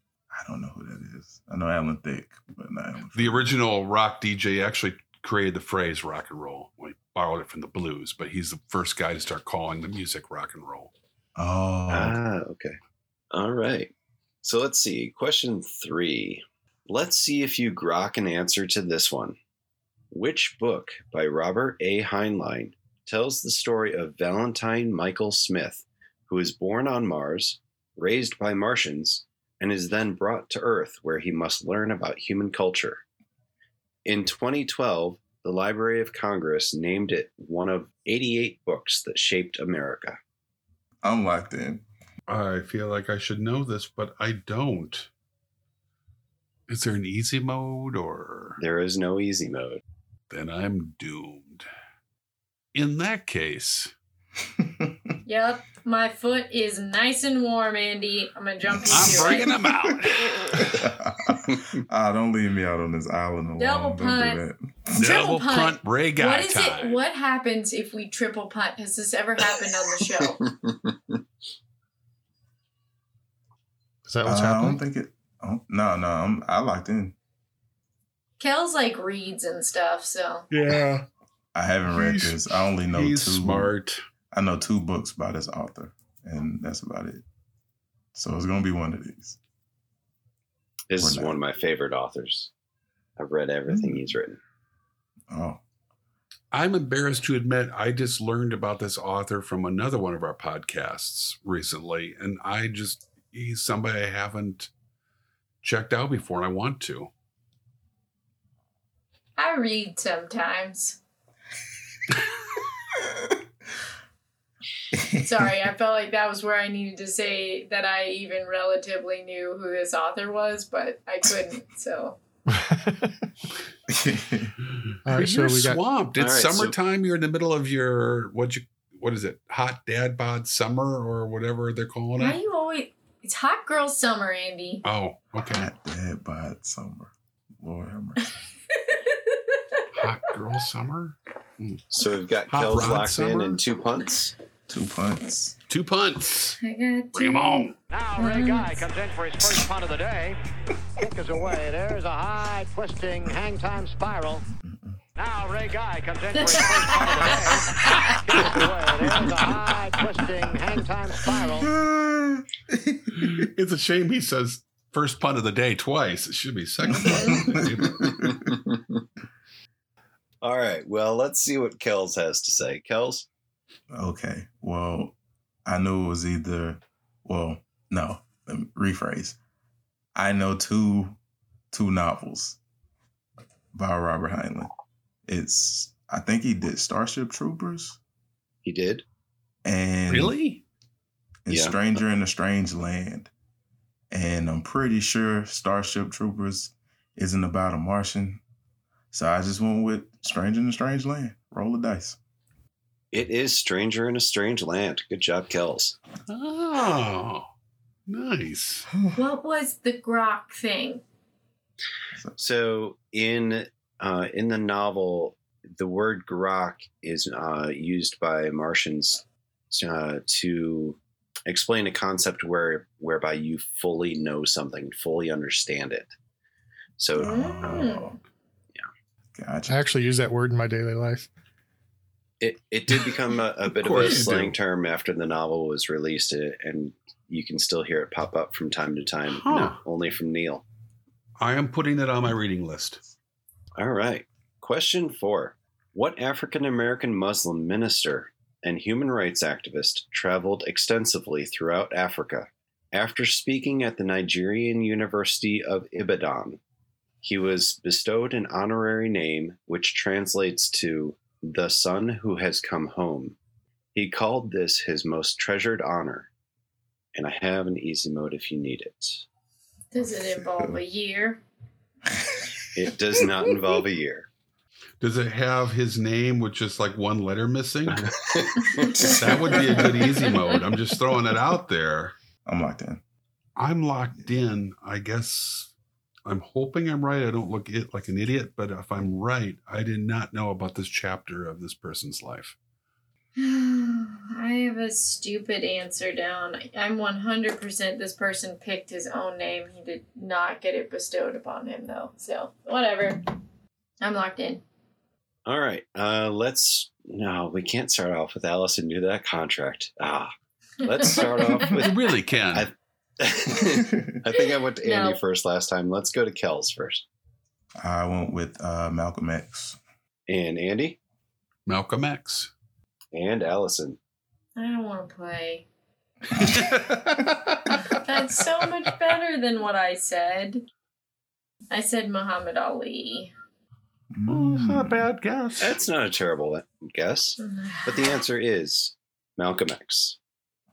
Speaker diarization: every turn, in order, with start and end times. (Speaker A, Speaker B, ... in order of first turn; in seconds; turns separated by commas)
Speaker A: 0.3-3.5, Speaker B: 3.1-10.9, Speaker A: 11.3-12.2, Speaker C: 11.9-12.8, Speaker C: 13.3-13.9, Speaker C: 14.4-19.4, Speaker C: 20.1-33.0, Speaker C: 34.0-40.2, Speaker A: 41.0-41.8, Speaker B: 42.3-45.1, Speaker B: 46.7-48.6, Speaker C: 48.6-49.8, Speaker B: 50.3-51.6, Speaker B: 52.7-53.9, Speaker A: 54.6-55.0, Speaker D: 55.2-59.5, Speaker A: 58.7-59.5, Speaker B: 58.9-60.7, Speaker A: 60.5-65.1, Speaker C: 61.4-61.8, Speaker D: 63.6-64.4, Speaker B: 65.0-67.0, Speaker D: 65.0-70.4, Speaker C: 70.3-71.2, Speaker E: 74.0-74.8, Speaker A: 74.2-77.1, Speaker D: 78.4-80.5, Speaker B: 80.5-81.0, Speaker A: 81.5-83.7, Speaker B: 81.9-84.0, Speaker A: 84.3-87.2, Speaker A: 88.1-89.4, Speaker C: 90.9-92.5, Speaker A: 91.0-91.3, Speaker C: 93.2-94.4, Speaker A: 93.7-94.1, Speaker A: 95.3-95.6, Speaker B: 96.5-104.7, Speaker B: 105.6-107.1, Speaker D: 109.4-111.0, Speaker A: 114.9-115.3, Speaker D: 115.2-122.2, Speaker E: 122.5-123.1, Speaker A: 123.9-124.5, Speaker E: 125.0-125.8, Speaker B: 125.1-132.4, Speaker C: 126.2-126.7, Speaker D: 132.2-134.8, Speaker B: 134.8-135.7, Speaker A: 135.4-138.3, Speaker B: 139.9-141.8, Speaker C: 141.9-144.3, Speaker B: 142.5-143.6, Speaker A: 144.7-145.5, Speaker B: 145.7-146.6, Speaker D: 146.6-148.9, Speaker B: 147.1-147.8, Speaker F: 147.9-150.4, Speaker F: 151.0-154.4, Speaker A: 154.6-155.0, Speaker F: 155.2-161.7, Speaker D: 156.3-157.6, Speaker A: 161.5-163.5, Speaker B: 163.2-168.3, Speaker A: 166.9-168.4, Speaker D: 167.1-167.4, Speaker C: 168.0-169.0, Speaker C: 170.4-173.3, Speaker A: 173.9-179.4, Speaker A: 180.1-181.2, Speaker A: 181.7-182.6, Speaker A: 183.7-184.7, Speaker A: 185.2-188.0, Speaker C: 188.6-189.0, Speaker A: 189.6-190.4, Speaker B: 190.1-190.6, Speaker A: 191.4-193.3, Speaker C: 191.5-191.8, Speaker A: 194.1-198.4, Speaker A: 199.1-202.2, Speaker C: 203.1-206.0, Speaker B: 206.3-207.5, Speaker B: 208.1-208.9, Speaker D: 209.1-211.0, Speaker C: 212.4-226.1, Speaker C: 227.0-227.9, Speaker A: 227.2-228.2, Speaker D: 227.2-228.2, Speaker A: 229.3-229.9, Speaker E: 229.7-231.3, Speaker C: 232.4-240.6, Speaker B: 233.7-234.5, Speaker B: 239.3-239.8, Speaker B: 241.4-243.0, Speaker C: 243.8-256.6, Speaker C: 257.2-263.4, Speaker C: 263.9-266.3, Speaker C: 267.1-269.2, Speaker D: 269.9-271.4, Speaker A: 270.0-270.8, Speaker A: 272.1-272.7, Speaker C: 272.7-274.3, Speaker B: 275.0-278.1, Speaker C: 277.9-279.2, Speaker D: 278.8-279.1, Speaker A: 278.9-280.0, Speaker B: 279.1-282.1, Speaker A: 282.4-283.0, Speaker B: 283.6-285.7, Speaker B: 286.2-292.6, Speaker D: 293.4-303.3, Speaker D: 304.0-304.6, Speaker C: 305.4-310.3, Speaker C: 310.8-317.0, Speaker D: 311.0-311.6, Speaker B: 311.7-312.7, Speaker A: 313.8-314.1, Speaker D: 314.4-315.2, Speaker A: 317.8-319.8, Speaker C: 320.3-321.0, Speaker B: 321.7-322.5, Speaker C: 323.1-324.0, Speaker D: 324.6-325.6, Speaker B: 326.3-327.9, Speaker D: 327.9-330.6, Speaker D: 331.7-333.3, Speaker A: 334.1-335.0, Speaker B: 334.3-335.8, Speaker C: 335.6-340.2, Speaker D: 337.4-338.2